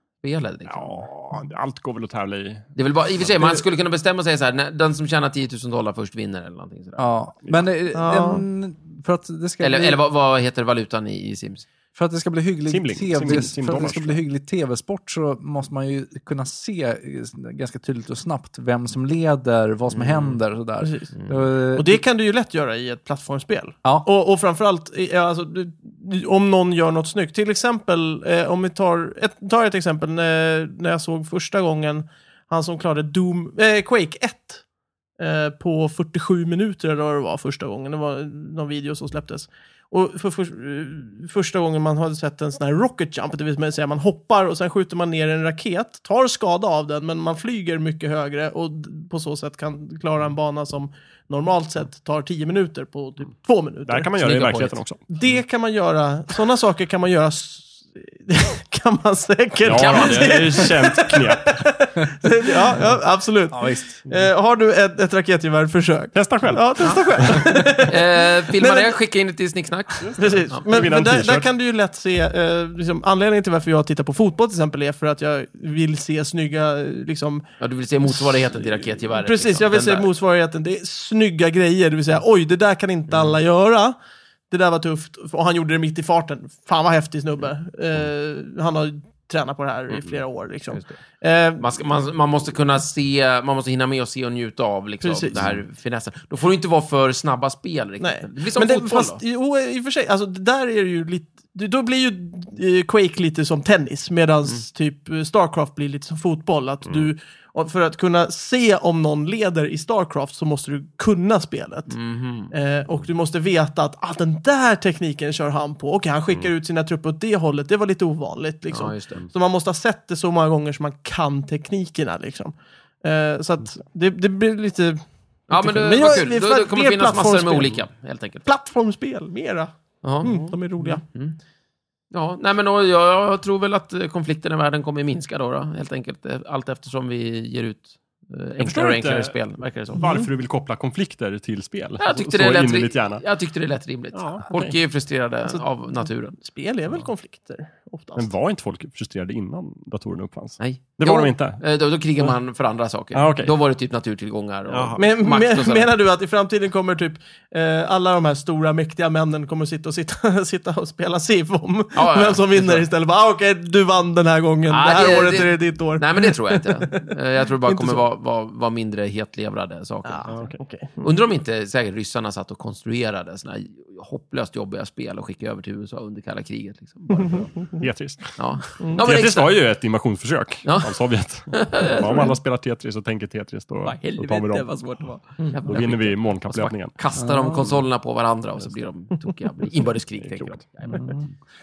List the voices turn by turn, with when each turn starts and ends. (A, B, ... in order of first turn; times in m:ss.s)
0:00.2-0:01.1 A
0:00.7-0:03.3 B
0:02.8-0:07.0 A
0:07.0-0:10.0 C
0:07.9-0:08.4 D
0:09.6-0:11.6 A
0:11.9-0:22.0 C
0:12.7-0:14.2 B
0:19.9-0:20.4 A
0:20.8-0:21.1 D
0:21.7-0:34.6 D
0:35.2-0:54.1 D
0:53.8-0:55.1 B
0:54.2-0:54.8 A
0:55.1-1:09.0 D
0:59.6-1:01.7 B
0:59.7-1:00.4 A
1:03.5-1:04.0 C
1:06.1-1:07.7 B
1:06.8-1:10.6 A
1:10.1-1:17.4 D
1:10.2-1:11.5 B
1:17.6-1:20.1 A
1:19.1-1:24.0 D
1:24.5-1:31.8 D
1:30.7-1:31.0 A
1:31.6-1:39.2 A
1:35.0-1:35.4 D
1:35.3-1:35.6 B
1:38.0-1:51.9 D
1:51.9-1:52.5 A
1:52.5-2:07.8 D
1:58.7-1:59.2 A
2:05.5-2:08.4 A
2:08.4-2:11.0 D
2:10.0-2:11.4 A
2:12.1-2:20.1 A
2:18.6-2:23.2 B
2:20.0-2:20.3 D
2:22.0-2:26.3 A
2:24.1-2:24.7 B
2:25.5-2:28.3 D
2:28.2-2:31.6 B
2:30.6-2:35.9 A
2:33.1-2:33.5 B
2:34.7-2:35.0 B
2:35.0-2:48.0 D
2:41.9-2:42.8 A
2:44.7-2:50.5 A
2:50.0-2:51.1 D
2:50.3-2:50.6 B
2:51.0-2:57.5 A
2:57.1-2:57.8 D
2:57.6-3:05.0 B
2:58.4-2:59.6 A
2:58.8-2:59.0 D
3:00.6-3:01.0 A
3:01.5-3:02.4 A
3:03.8-3:11.1 A
3:05.6-3:07.0 B
3:07.1-3:07.8 C
3:10.2-3:11.0 B
3:10.9-3:11.2 C